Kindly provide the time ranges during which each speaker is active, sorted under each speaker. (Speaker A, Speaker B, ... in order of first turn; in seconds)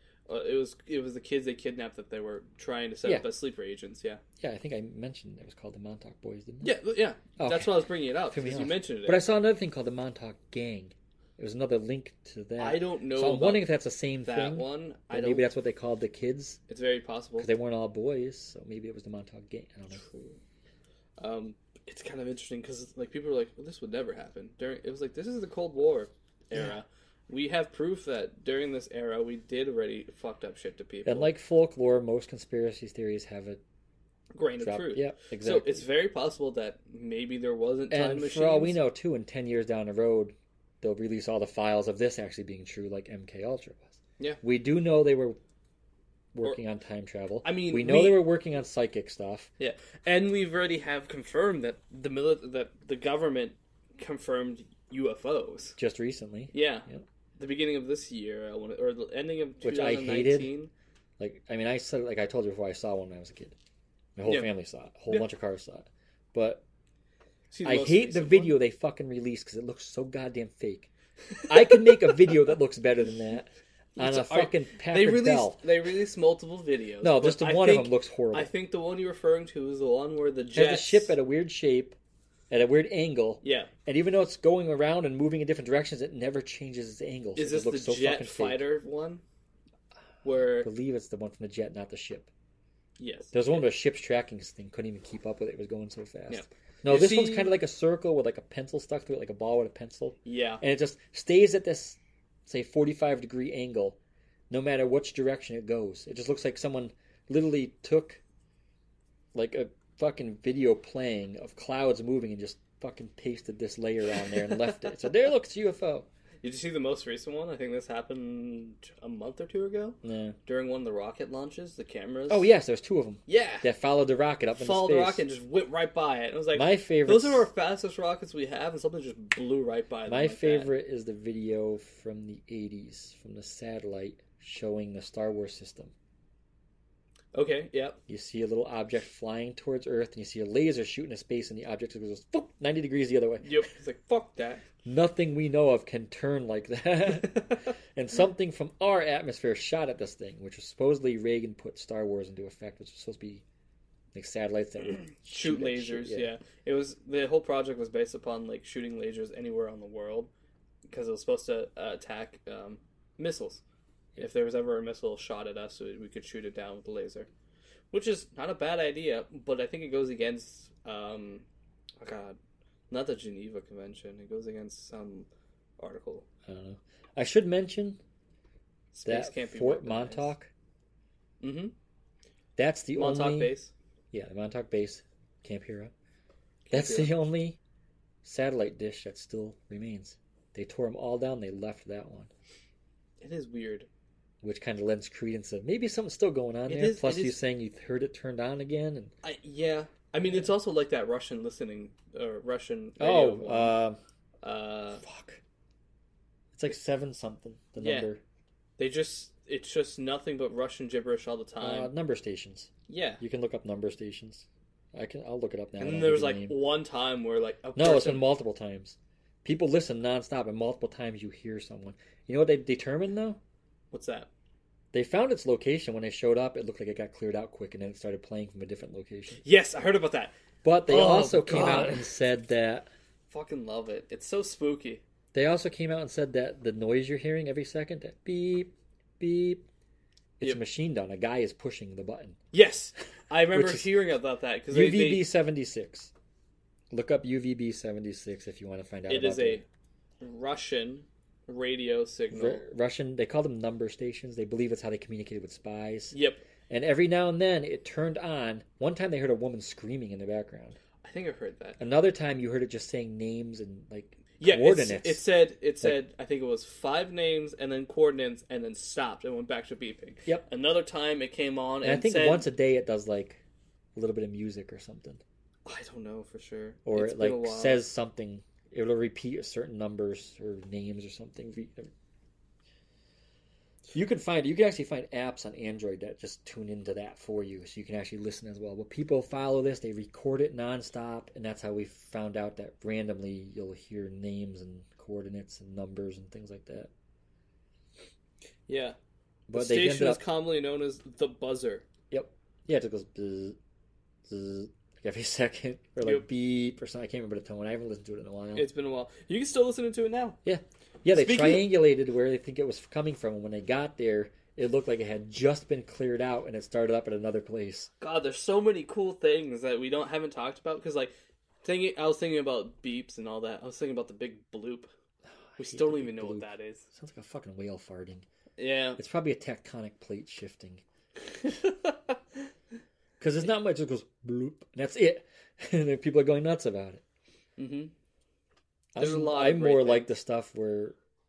Speaker A: 0.3-4.2, 6.6-9.2, 12.6-13.7, 14.2-15.5, 16.7-17.5, 19.9-20.4, 21.2-31.3, 34.3-38.8, 47.4-48.3, 49.6-55.8, 56.5-60.7, 67.5-68.6, 71.4-72.3, 74.0-81.2, 83.4-83.7, 87.4-89.2, 90.2-90.7, 93.0-93.6, 96.3-97.5, 100.2-100.6, 116.4-122.5, 123.3-123.7, 124.6-130.7, 137.3-138.0, 143.4-144.6, 147.2-147.7, 155.2-160.3, 160.9-163.6, 164.2-167.3, 167.9-171.4, 172.0-172.4, 172.9-175.3, 175.8-176.2, 178.9-180.3, 181.4-181.7, 182.9-183.7, 186.7-187.1, 193.2-193.9, 196.7-197.4, 199.2-203.8, 204.4-205.0, 207.8-208.1, 208.8-211.9, 212.9-213.2, 215.8-218.3, 223.9-224.3, 229.4-230.3, 230.9-232.1, 233.3-235.0, 242.5-245.3, 249.1-249.6, 250.2-252.6, 256.1-256.4, 261.0-261.8, 264.4-272.5, 275.6-277.8, 298.7-299.0, 299.5-301.8, 306.0-306.2, 308.6-310.4, 311.1-311.7, 318.0-321.1, 321.6-324.9, 325.6-326.9, 328.6-329.0, 331.4-332.1, 337.6-337.9, 339.0-340.1
Speaker B: 4.4-6.8, 7.4-16.6, 17.4-20.0, 31.1-33.6, 34.6-35.9, 37.9-45.4, 46.3-49.5, 55.8-57.0, 59.6-60.5, 61.2-63.5, 64.2-66.6, 67.6-70.9, 71.5-75.6, 77.0-78.5, 80.5-82.0, 82.5-88.6, 90.3-92.3, 93.3-104.0, 104.5-108.2, 109.3-116.1, 120.0-120.4, 122.3-125.2, 126.5-127.5, 130.1-135.9, 138.1-143.6, 144.8-153.4, 154.1-156.3, 176.4-178.0, 179.1-180.5, 182.6-183.5, 184.1-185.9, 186.7-187.6, 188.2-192.3, 194.4-199.1, 200.3-200.5, 203.0-204.0, 205.0-205.4, 206.5-208.2, 211.6-216.6, 217.8-223.4, 224.9-229.4, 230.6-232.9, 235.3-239.6, 240.4-242.4, 243.5-243.9, 244.7-246.1, 246.9-249.6, 252.3-256.1, 256.7-260.8, 261.8-265.2, 271.8-273.4, 273.9-275.2, 276.8-281.9, 283.9-296.9, 299.5-300.2, 302.1-303.6, 304.3-308.7, 310.4-317.9, 325.5-328.2, 329.0-330.8, 333.2-337.0, 338.9-340.9